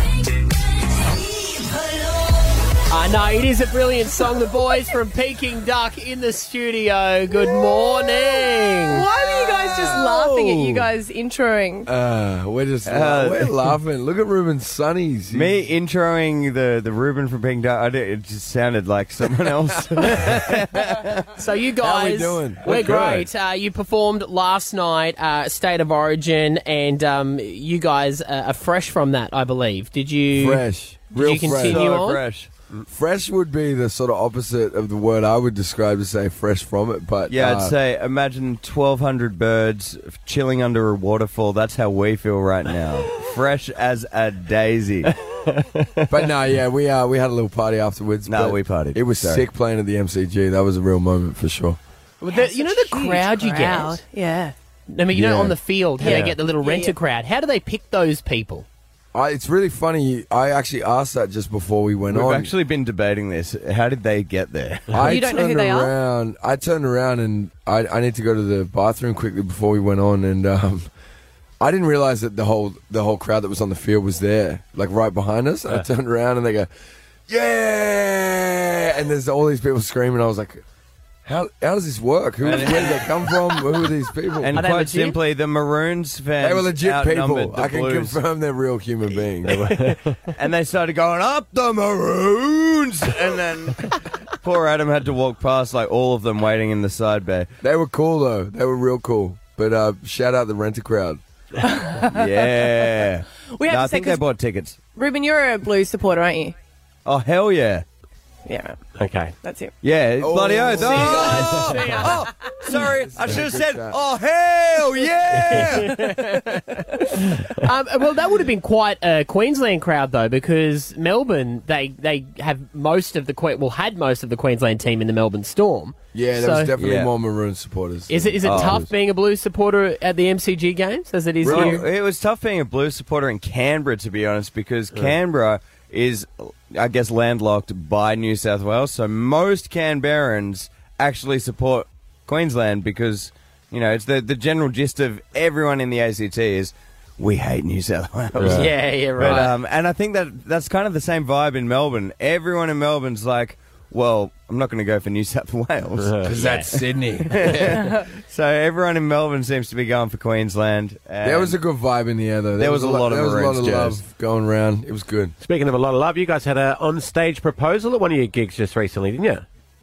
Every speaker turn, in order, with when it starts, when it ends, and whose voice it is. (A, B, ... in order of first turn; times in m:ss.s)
0:02.9-0:09.0 A
0:08.9-0:11.9 B
0:09.2-0:10.8 C
0:11.9-0:15.6 C
0:12.9-0:13.6 D
0:15.3-0:21.3 D
0:21.4-0:32.2 A
0:21.8-0:23.3 C
0:30.3-0:31.9 C
0:31.5-0:32.5 D
0:32.9-0:37.8 C
0:37.3-0:46.3 D
0:46.1-0:51.8 C
0:48.3-0:49.4 D
0:52.2-0:54.0 A
0:52.3-0:54.5 B
0:54.9-0:58.6 A
0:55.1-0:55.6 C
0:56.0-0:57.0 B
0:56.0-0:56.3 E
0:59.1-1:02.6 C
1:02.1-1:05.0 D
1:04.9-1:10.9 C
1:05.0-1:05.9 B
1:11.6-1:16.7 C
1:17.3-1:20.6 C
1:21.2-1:24.6 C
1:22.4-1:23.3 D
1:24.4-1:28.2 D
1:24.5-1:25.2 A
1:26.4-1:29.8 C
1:29.5-1:30.2 E
1:30.4-1:37.5 D
1:37.6-1:41.2 C
1:41.6-1:42.8 B
1:42.0-1:44.8 D
1:43.6-1:44.2 B
1:45.0-1:46.5 B
1:47.0-1:47.8 D
1:48.4-1:48.8 B
1:49.0-1:49.3 E
1:49.4-1:49.7 B
1:49.8-1:56.1 D
1:50.2-1:52.0 C
1:50.8-1:52.2 A
1:52.7-1:54.0 C
1:55.5-1:56.5 A
1:57.4-2:06.7 A
2:06.1-2:08.9 C
2:06.8-2:07.1 D
2:08.1-2:11.8 A
2:08.4-2:08.9 D
2:11.4-2:11.9 C
2:11.4-2:36.4 D
2:28.4-2:28.7 E
2:28.4-2:29.5 A
2:36.0-2:36.4 E
2:36.2-2:37.7 C
2:36.4-2:36.6 A
2:37.3-2:41.6 D
2:41.2-2:45.3 C
2:42.6-2:44.0 D
2:45.4-2:49.4 E